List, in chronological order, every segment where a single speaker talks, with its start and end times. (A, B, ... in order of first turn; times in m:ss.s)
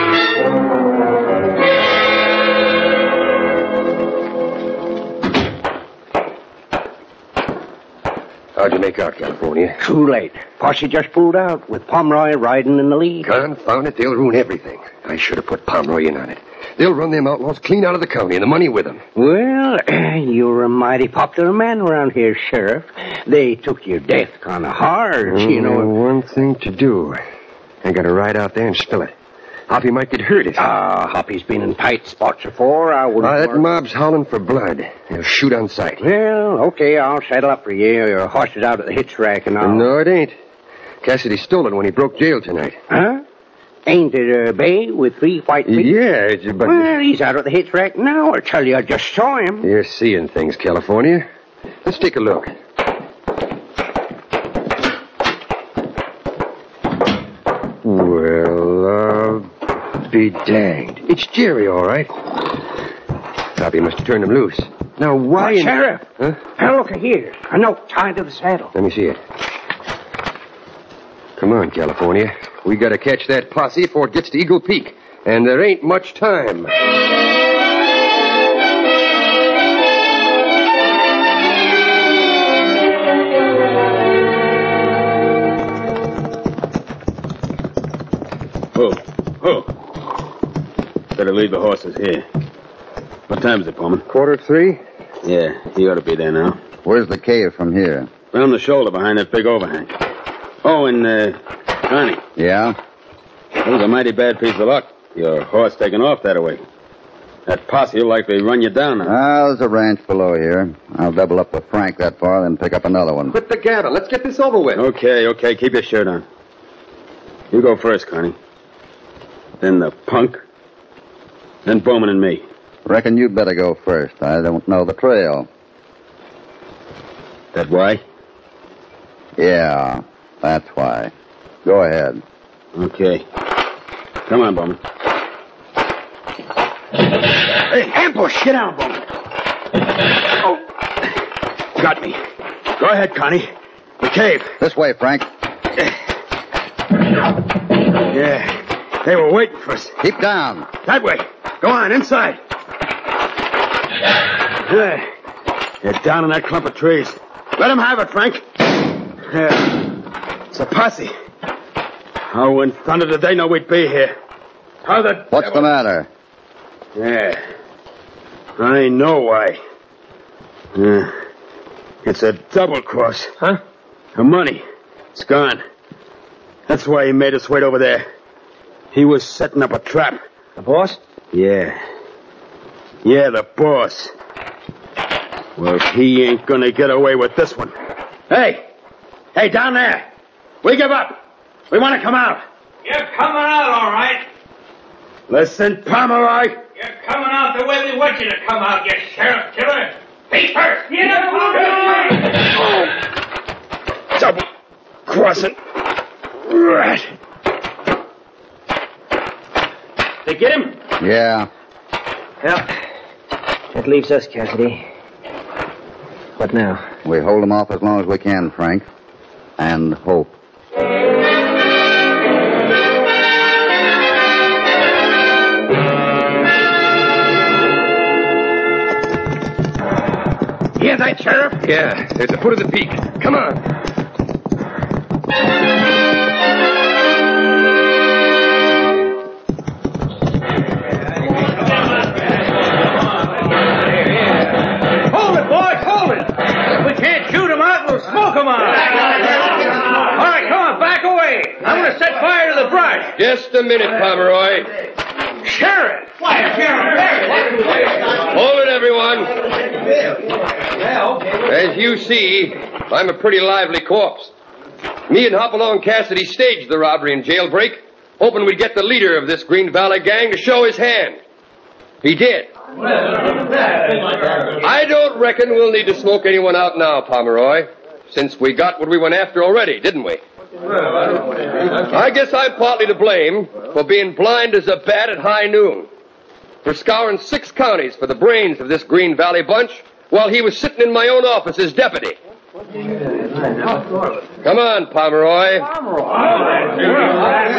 0:08.6-0:09.8 A
0:09.8-0:13.3 B
0:13.2-0:19.0 A
0:19.1-0:25.9 B
0:25.2-0:27.2 A
0:27.8-0:29.1 A
0:29.7-0:30.6 A
0:30.6-0:33.6 B
0:33.2-0:36.0 A
0:36.0-0:39.9 B
0:39.6-0:40.3 A
0:41.0-0:42.8 A
0:42.9-0:43.2 B
0:43.8-0:45.9 B
0:45.6-0:46.9 A
0:46.6-0:49.7 B
0:49.6-0:51.2 A
0:51.8-0:52.5 A
0:57.8-0:59.5 A
1:00.1-1:02.1 A
1:03.5-1:06.4 A
1:05.3-1:06.0 B
1:06.6-1:08.7 B
1:08.7-1:09.2 A
1:11.4-1:16.7 A
1:28.7-1:29.7 C
1:31.1-1:32.2 C
1:33.3-1:34.0 C
1:34.1-1:34.8 A
1:35.2-1:36.6 C
1:36.8-1:38.1 D
1:38.3-1:39.9 C
1:40.6-1:42.2 C
1:42.4-1:42.8 D
1:43.6-1:46.6 C
1:47.5-1:49.1 C
1:49.0-1:53.4 D
1:53.3-1:54.8 A
1:54.7-1:56.2 C
1:57.5-1:58.3 C
1:59.6-2:00.4 C
2:01.6-2:02.4 C
2:02.8-2:05.5 D
2:07.5-2:08.0 C
2:09.4-2:11.1 D
2:11.6-2:12.2 D
2:12.7-2:13.2 C
2:14.3-2:14.8 C
2:17.7-2:19.0 C
2:21.8-2:22.2 C
2:22.8-2:23.5 C
2:24.0-2:24.5 C
2:24.6-2:25.3 D
2:28.1-2:29.9 C
2:30.0-2:30.7 D
2:30.8-2:32.4 C
2:34.6-2:35.0 C
2:35.8-2:38.4 C
2:39.3-2:39.9 C
2:40.5-2:41.1 C
2:42.3-2:44.1 C
2:44.8-2:45.7 C
2:45.3-2:46.1 D
2:47.0-2:47.4 C
2:48.6-2:49.6 C
2:50.7-2:51.2 C
2:52.0-2:53.3 C
2:54.2-2:55.6 C
2:56.7-2:58.0 C
2:58.9-3:00.2 C
3:00.6-3:01.0 E
3:01.3-3:01.8 C
3:03.0-3:04.1 C
3:05.6-3:07.7 C
3:08.3-3:08.6 C
3:09.3-3:10.1 C
3:10.6-3:11.2 C
3:11.7-3:12.4 C
3:12.8-3:14.2 F
3:15.3-3:16.6 C
3:16.8-3:22.3 F
3:24.2-3:24.4 C
3:25.1-3:25.5 C
3:26.5-3:27.1 C
3:30.3-3:30.6 C
3:31.0-3:31.5 D
3:33.7-3:34.8 E
3:36.4-3:36.8 E
3:37.0-3:38.9 D
3:39.6-3:40.3 D
3:50.8-3:51.6 B
3:51.6-3:53.6 A
4:05.0-4:13.1 F
4:13.1-4:14.7 A
4:15.4-4:17.4 F
4:18.0-4:19.3 A
4:21.3-4:24.3 A
4:25.1-4:31.2 A
4:32.0-4:32.5 A
4:34.4-4:40.2 A
4:41.7-4:45.9 A
4:46.6-4:52.2 A
4:54.4-4:55.7 A
4:56.8-4:57.3 A